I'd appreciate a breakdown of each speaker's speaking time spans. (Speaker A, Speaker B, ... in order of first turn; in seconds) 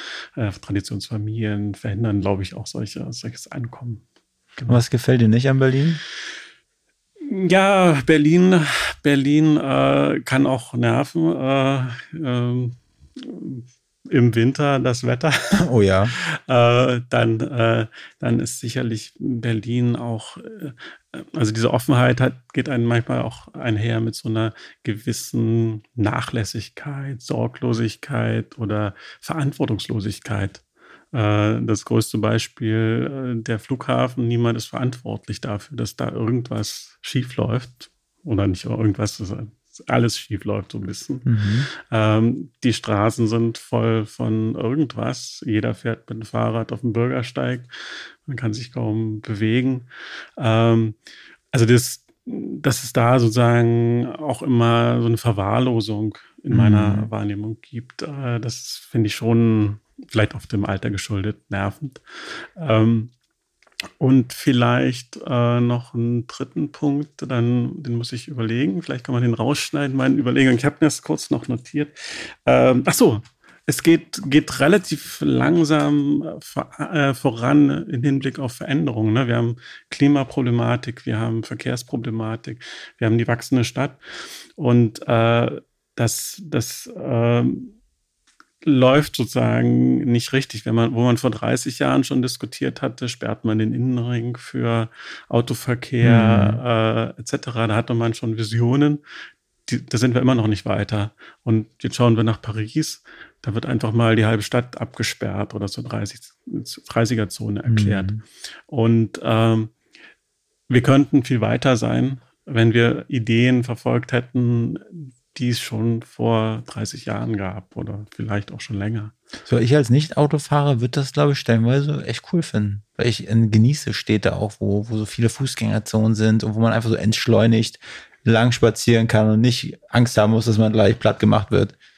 Speaker A: 0.4-4.0, 4.6-4.8, 7.2-15.6, 16.2-30.6, 31.1-47.7, 48.3-51.0, 51.5-63.1, 64.0-84.0, 84.6-87.8, 88.6-99.0, 99.7-108.2, 108.7-109.7, 110.7-119.1
Speaker B: 4.7-6.0, 15.6-16.1, 41.3-41.7, 56.5-57.1, 96.0-96.6, 107.7-108.2, 119.5-131.8